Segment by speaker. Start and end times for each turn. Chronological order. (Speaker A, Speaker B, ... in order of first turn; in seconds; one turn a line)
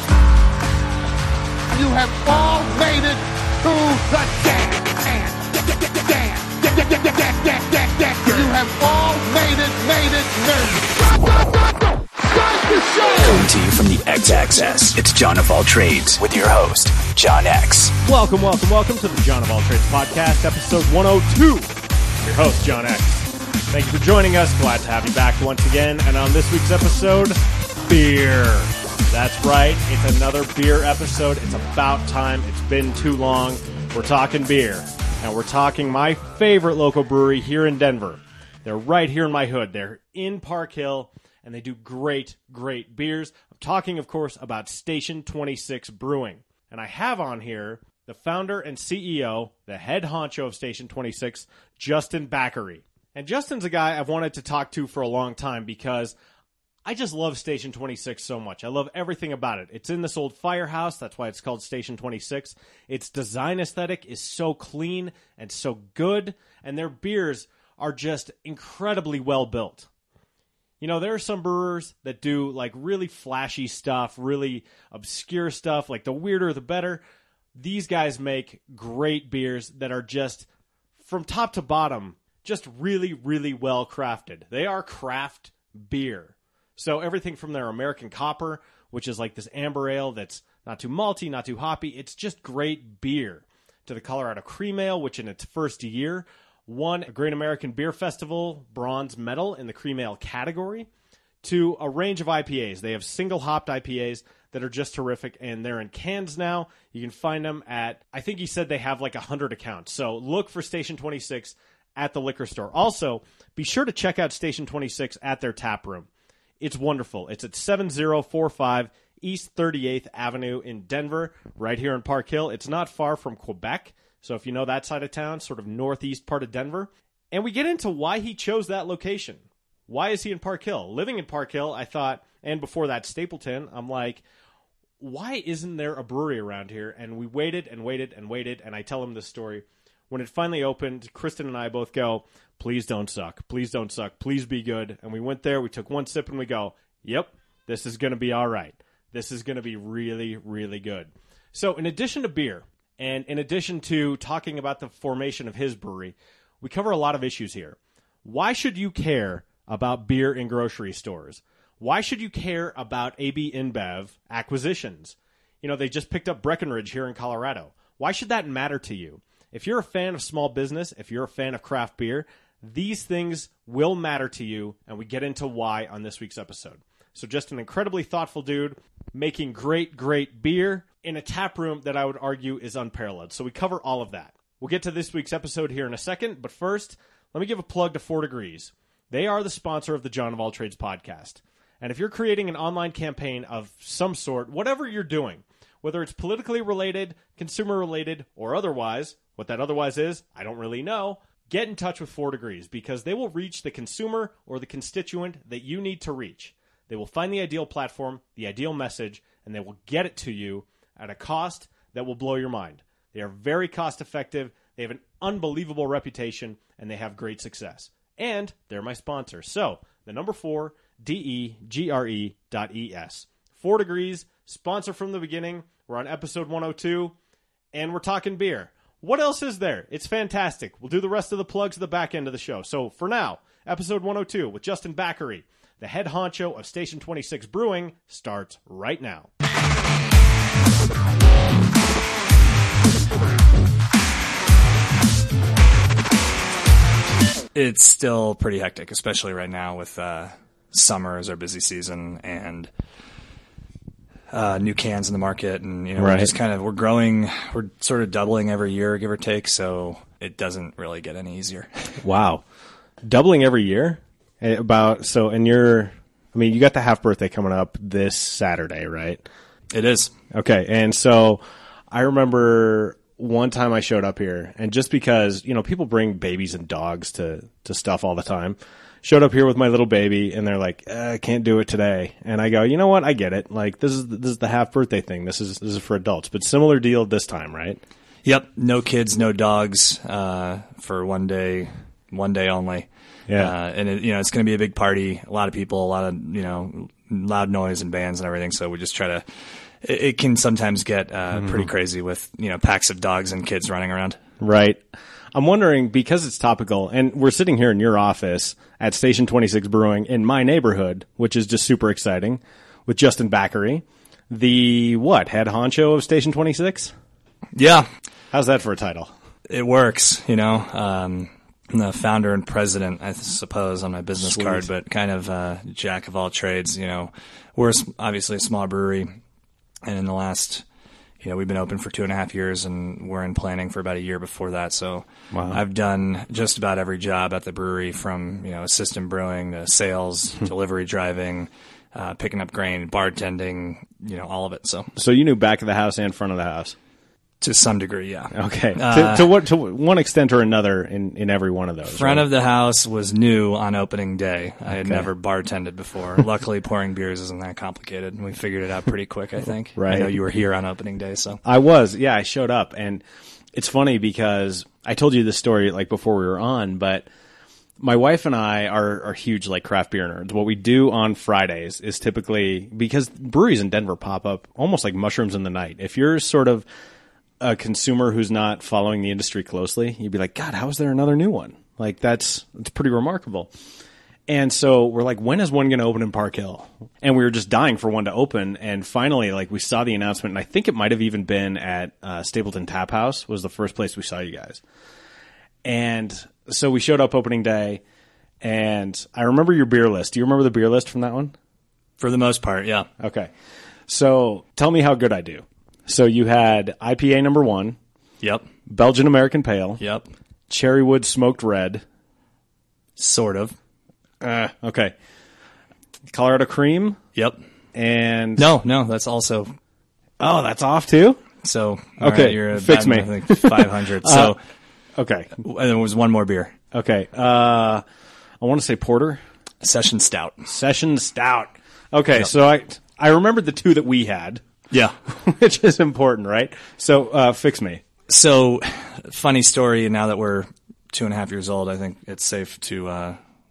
Speaker A: 1.7-11.0
Speaker A: 12.2-13.4
Speaker B: 13.2-17.9
Speaker C: 18.0-56.1
Speaker C: 56.9-69.9
Speaker C: 70.8-77.0
Speaker C: 77.5-80.5
Speaker C: 81.0-100.9
Speaker C: 101.4-116.1
Speaker C: 116.6-134.2
Speaker C: 135.0-227.2
Speaker C: 227.7-239.3
Speaker D: 247.5-252.7
Speaker D: 254.3-262.0
Speaker C: 256.0-256.3
Speaker C: 262.0-262.4
Speaker C: 263.0-269.2
Speaker D: 269.7-270.1
Speaker C: 270.3-287.8
Speaker D: 288.2-299.2
Speaker D: 299.8-304.2
Speaker C: 304.4-316.9
Speaker D: 317.6-317.9
Speaker C: 318.3-319.1
Speaker D: 319.5-329.2
Speaker C: 324.2-324.6
Speaker D: 329.9-330.6
Speaker D: 331.2-344.9
Speaker C: 335.3-335.6
Speaker C: 345.0-346.8
Speaker D: 347.4-349.4
Speaker C: 348.3-352.3
Speaker D: 351.9-361.4
Speaker C: 354.8-355.1
Speaker C: 359.8-360.2
Speaker C: 361.4-363.0
Speaker C: 363.5-367.1
Speaker C: 367.8-376.6
Speaker C: 377.4-383.5
Speaker C: 384.3-394.6
Speaker C: 395.6-397.8
Speaker C: 398.4-401.3
Speaker D: 402.0-402.9
Speaker C: 403.0-403.3
Speaker C: 403.9-407.8
Speaker D: 408.2-408.5
Speaker C: 408.7-409.8
Speaker D: 409.8-410.1
Speaker C: 410.5-411.8
Speaker D: 413.0-413.6
Speaker C: 414.2-414.9
Speaker C: 416.1-417.0
Speaker D: 417.1-417.4
Speaker C: 417.7-418.5
Speaker D: 418.4-419.5
Speaker C: 420.2-421.2
Speaker D: 421.4-424.4
Speaker C: 422.0-424.4
Speaker C: 425.0-425.3
Speaker D: 425.4-426.6
Speaker C: 426.7-427.8
Speaker C: 428.4-429.2
Speaker D: 429.6-430.5
Speaker C: 430.5-434.4
Speaker D: 434.7-435.0
Speaker C: 435.1-437.8
Speaker D: 438.1-443.2